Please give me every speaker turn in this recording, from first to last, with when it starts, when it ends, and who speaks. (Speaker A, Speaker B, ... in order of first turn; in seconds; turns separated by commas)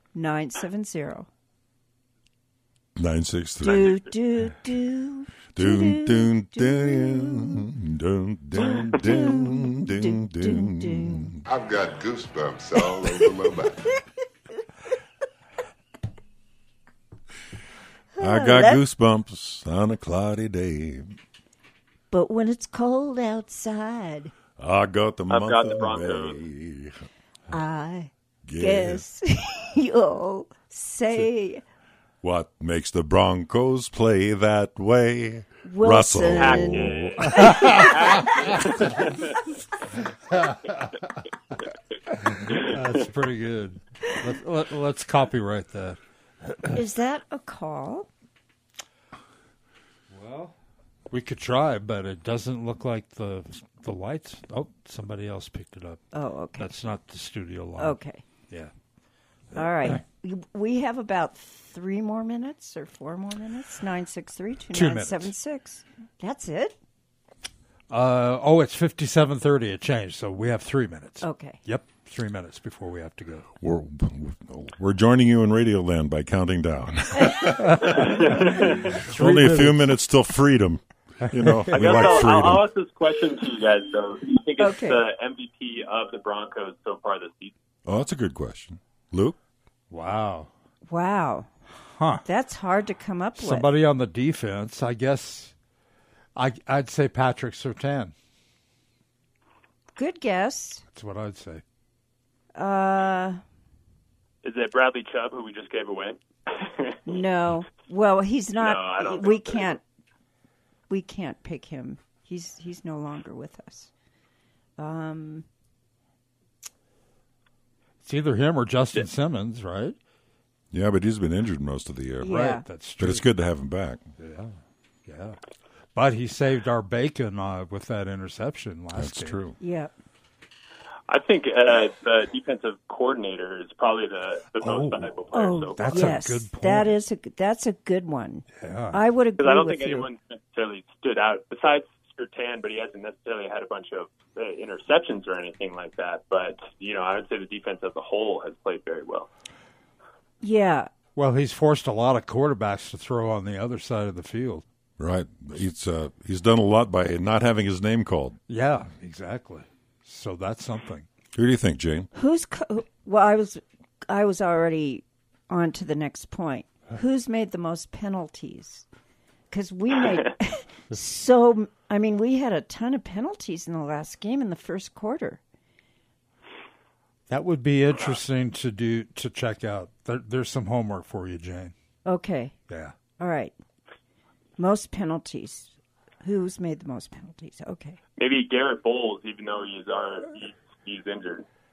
Speaker A: 0.1-1.3, Speaker B: 3.0-4.0, Speaker A: 3.6-7.7, Speaker C: 3.6-4.0, Speaker B: 5.5-11.4, Speaker A: 8.5-11.3, Speaker D: 11.4-13.9, Speaker A: 12.9-13.2, Speaker A: 18.2-18.8, Speaker B: 18.2-21.1, Speaker A: 22.1-24.3, Speaker B: 24.6-27.0, Speaker C: 25.3-26.4, Speaker A: 27.5-31.6, Speaker B: 28.4-29.0, Speaker B: 32.2-37.7, Speaker A: 35.6-36.9, Speaker C: 36.3-39.4, Speaker E: 37.3-38.3, Speaker E: 40.3-40.9, Speaker E: 42.1-46.8, Speaker A: 46.7-48.1, Speaker E: 50.1-50.5, Speaker E: 51.1-56.0, Speaker A: 56.1-56.7, Speaker E: 56.6-58.0, Speaker A: 57.8-58.2, Speaker A: 59.5-66.7, Speaker E: 64.7-65.3, Speaker E: 67.9-73.5, Speaker A: 71.2-71.6, Speaker B: 73.6-82.7, Speaker E: 77.6-78.0, Speaker C: 77.8-79.0, Speaker E: 79.0-79.9, Speaker E: 81.3-82.1, Speaker C: 81.7-87.5, Speaker A: 84.6-85.0, Speaker B: 87.8-89.4, Speaker E: 89.9-90.5, Speaker A: 90.9-91.5, Speaker E: 91.8-92.2, Speaker A: 92.2-93.7, Speaker E: 93.4-95.5, Speaker E: 96.3-98.1, Speaker A: 100.0-100.8, Speaker E: 100.9-101.6, Speaker A: 102.5-103.4, Speaker C: 104.4-107.2, Speaker A: 107.0-109.8, Speaker C: 108.6-109.8, Speaker A: 110.9-113.9, Speaker A: 114.8-115.5, Speaker E: 118.0-120.0, Speaker B: 120.7-122.5, Speaker A: 122.2-122.6, Speaker E: 122.2-123.2, Speaker B: 123.0-124.0, Speaker E: 124.2-124.5, Speaker E: 125.0-125.4, Speaker E: 125.9-129.4, Speaker B: 128.9-129.6, Speaker A: 129.6-129.9, Speaker C: 131.1-136.2, Speaker E: 134.6-135.1, Speaker A: 135.3-140.1, Speaker E: 135.7-136.9, Speaker E: 138.6-139.0, Speaker C: 139.4-149.3, Speaker A: 150.4-150.9, Speaker E: 151.2-154.6, Speaker B: 155.0-158.4, Speaker E: 158.5-161.1, Speaker B: 161.3-162.1, Speaker A: 162.1-168.8, Speaker A: 169.5-175.4, Speaker E: 177.3-181.7, Speaker A: 182.1-182.5, Speaker E: 182.7-182.9, Speaker A: 183.2-183.5, Speaker A: 184.6-188.0, Speaker C: 188.2-191.4